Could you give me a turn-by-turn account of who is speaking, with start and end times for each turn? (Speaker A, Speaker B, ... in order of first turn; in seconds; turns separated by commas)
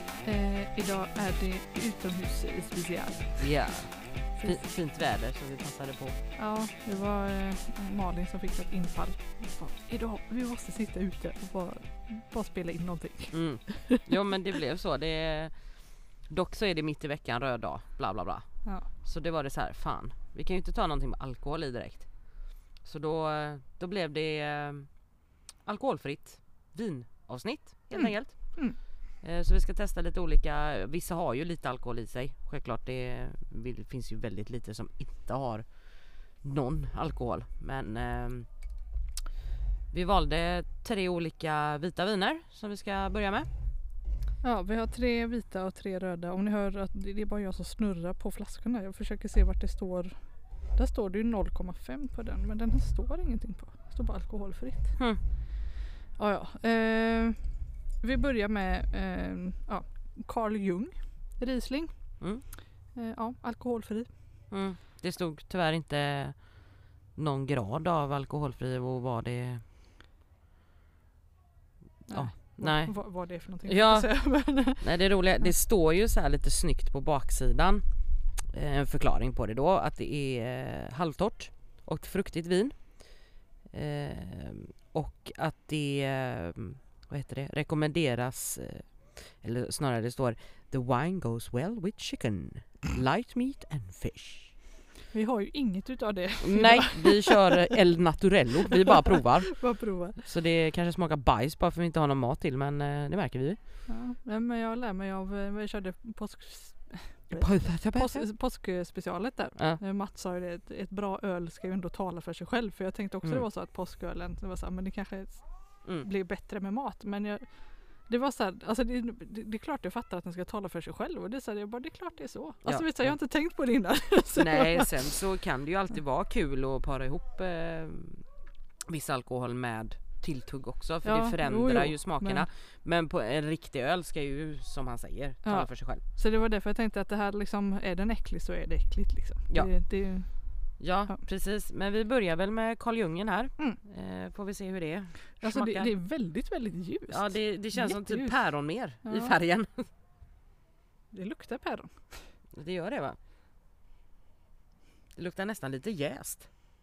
Speaker A: 0.2-3.5, Speaker B: 3.4-6.2, Speaker A: 4.4-4.6, Speaker A: 6.4-14.0, Speaker B: 13.3-15.6, Speaker B: 16.2-24.9, Speaker B: 25.6-28.7, Speaker A: 27.9-28.8, Speaker B: 29.2-35.7, Speaker B: 36.4-38.5, Speaker B: 39.9-43.5, Speaker A: 44.4-50.2, Speaker A: 50.8-55.0, Speaker A: 56.2-64.1, Speaker B: 64.5-69.6, Speaker A: 72.1-74.8, Speaker B: 72.1-73.0, Speaker B: 73.6-77.8, Speaker B: 78.4-94.5, Speaker A: 95.1-97.7, Speaker B: 96.4-99.6, Speaker A: 99.5-100.2, Speaker B: 100.2-103.6, Speaker A: 103.9-115.5, Speaker B: 107.3-108.2, Speaker A: 116.0-117.5, Speaker A: 118.0-125.1, Speaker B: 122.6-123.1, Speaker B: 124.4-128.2, Speaker B: 128.9-136.0, Speaker A: 131.0-132.5, Speaker A: 135.4-141.2, Speaker B: 140.8-145.9, Speaker A: 145.4-148.4, Speaker B: 147.1-149.9, Speaker A: 149.0-149.3, Speaker A: 151.1-152.2, Speaker B: 152.5-153.2, Speaker B: 155.2-156.5